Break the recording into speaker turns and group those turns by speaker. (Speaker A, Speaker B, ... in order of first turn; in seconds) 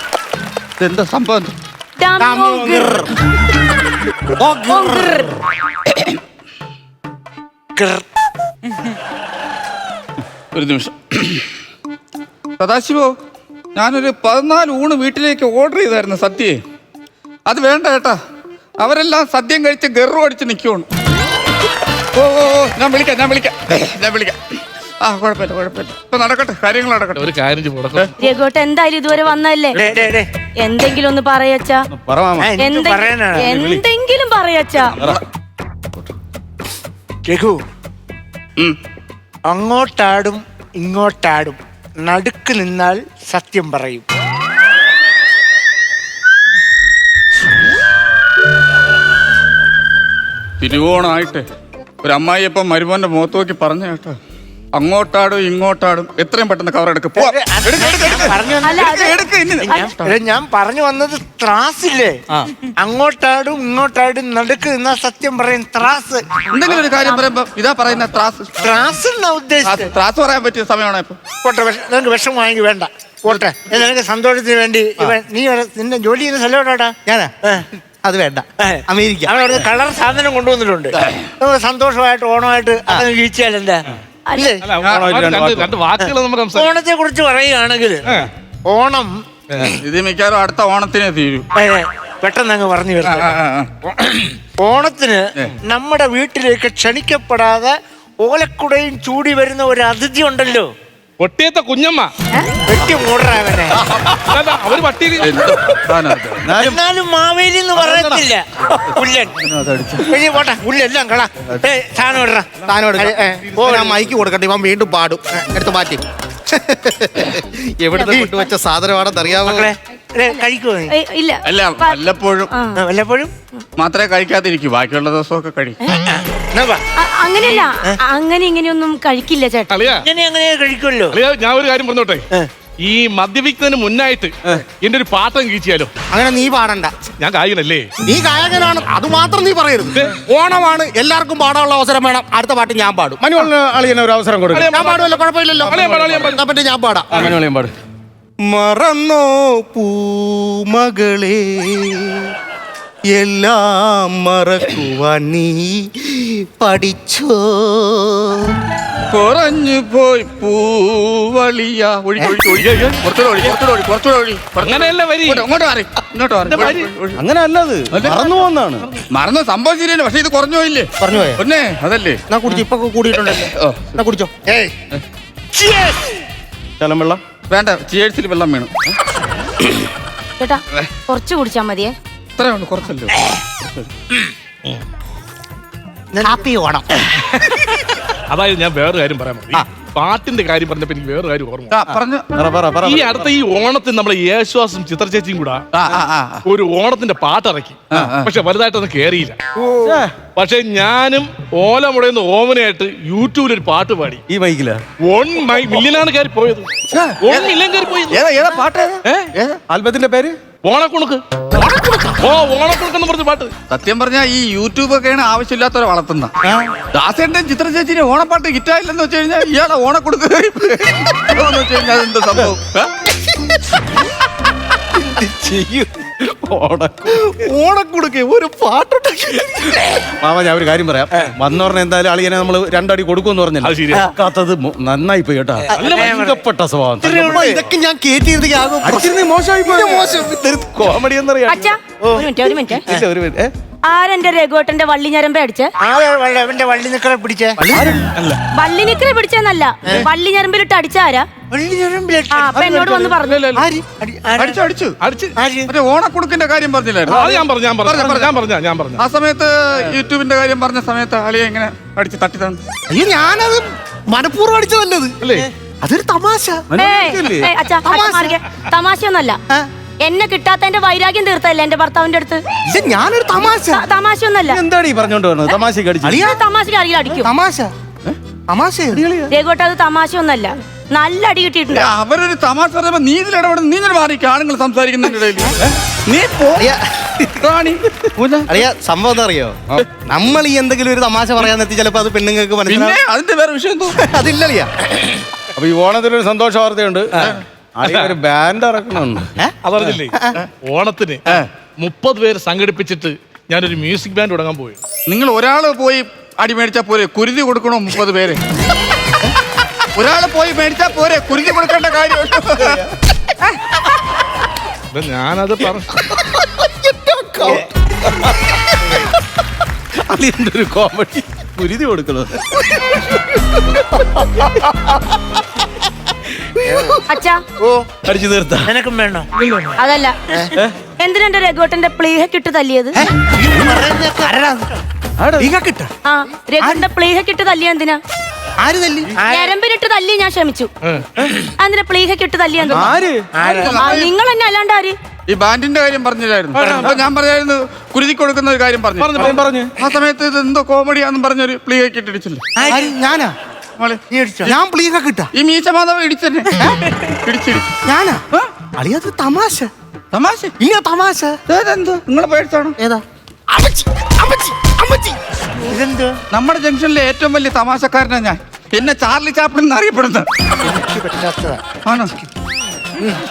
Speaker A: 0.8-1.5, 10.5-11.5, 12.6-13.1, 13.7-16.6, 17.5-18.2, 18.8-20.9, 22.1-24.4, 25.0-27.2, 50.6-51.5, 52.0-54.2, 54.7-60.1, 66.5-68.6, 69.6-71.2, 89.8-91.5, 93.1-93.7, 105.2-106.5, 109.4-110.1, 121.4-122.5, 123.8-125.8, 159.1-167.2, 167.9-168.2, 169.1-172.2, 173.3-173.8, 177.5-178.7, 182.4-183.2, 191.7-192.3, 195.7-196.4, 197.9-198.3, 208.1-209.5, 213.7-216.3, 216.9-222.9, 254.4-254.9, 255.7-258.3, 259.0-262.6, 281.7-286.7, 287.4-288.6, 292.6-294.0, 305.1-308.4, 309.9-312.8, 343.4-344.1, 345.3-352.4, 353.8-354.5, 355.3-356.6, 357.2-357.7, 360.1-360.5, 361.5-362.8, 366.3-370.3, 371.8-372.1
Speaker B: 2.0-3.0, 4.7-5.3, 28.2-29.8, 30.6-31.9, 32.6-34.9, 58.6-59.9, 84.3-84.5, 120.3-122.8, 127.0-129.7, 180.4-181.9, 241.5-242.8, 243.9-245.7, 248.5-251.3, 252.3-253.4, 266.8-269.4, 270.0-272.4, 273.7-274.6, 276.1-277.3, 279.3-281.9, 327.1-327.4, 329.8-330.2, 331.0-333.0, 336.0-338.0, 339.3-340.7, 341.5-342.9, 343.5-344.9
Speaker C: 2.2-3.1, 4.4-5.1, 77.0-77.3, 78.0-79.3, 112.7-119.7, 136.1-136.9, 138.1-143.2, 144.7-147.3, 148.5-152.3, 153.1-158.5, 171.0-171.4, 172.3-174.3, 211.6-212.2, 227.2-229.7, 237.1-239.1, 239.7-240.2, 247.6-248.0, 262.9-265.2, 265.8-266.6, 267.8-268.3, 272.7-273.8, 276.0-276.4, 277.1-277.7, 278.5-279.0, 286.6-287.4, 288.5-293.0, 294.0-295.1, 335.4-335.9, 338.6-339.1, 352.6-353.3, 354.4-355.3, 357.8-358.2, 358.8-359.7, 360.6-361.4, 362.8-365.2
Speaker D: 4.4-5.0, 7.8-8.0, 29.7-30.3, 32.4-33.5, 37.2-37.6, 39.5-44.0, 57.1-58.9, 59.6-62.2, 62.8-66.5, 68.6-69.9, 71.4-77.6, 78.6-84.6, 86.5-88.0, 88.7-89.7, 91.5-93.3, 93.9-100.7, 102.7-103.8, 106.5-109.3, 110.0-114.0, 118.0-118.3, 119.4-120.9, 122.8-123.3, 126.1-126.8, 130.0-131.2, 174.4-174.7, 175.5-176.2, 186.1-187.4, 199.6-199.9, 225.0-225.9, 235.7-236.4, 237.0-237.7, 242.0-242.3, 245.8-247.6, 251.5-252.6, 253.6-254.6, 255.4-255.7, 317.4-317.6, 326.6-327.0, 327.6-327.9, 328.6-329.3, 333.0-334.8, 339.2-339.5, 343.3-344.0, 346.6-347.0, 352.6-352.9, 354.1-354.5, 365.6-366.2, 370.6-372.3
Speaker E: 27.2-28.1, 84.6-86.7, 89.5-89.8, 101.2-102.1, 104.2-105.5, 129.7-130.1, 131.1-132.2, 132.8-135.9, 137.2-137.9, 144.5-146.4, 164.6-165.4, 166.5-166.9, 188.3-191.7, 192.8-195.6, 196.4-199.3, 200.3-204.2, 205.0-208.2, 210.6-211.2, 212.2-213.5, 233.6-234.1, 235.7-236.1, 255.0-255.3, 257.1-259.0, 265.2-265.5, 297.8-298.1, 299.6-304.8, 314.9-316.0, 349.0-349.4
Speaker F: 31.9-32.6, 33.4-33.8, 84.8-85.7, 106.4-106.8, 107.8-108.2, 143.2-144.8, 145.7-146.4, 147.1-147.7, 166.6-168.9, 176.8-177.2, 192.3-193.2, 199.8-200.1, 204.3-204.8, 209.7-210.4, 226.2-227.2, 230.2-237.3, 238.8-241.7, 242.8-243.5, 247.7-248.1, 266.7-267.5, 274.5-276.2, 278.9-279.3, 295.5-299.3, 320.1-322.6, 326.6-326.9, 328.0-328.7, 335.2-335.5, 342.7-343.3, 346.6-346.9, 349.1-349.7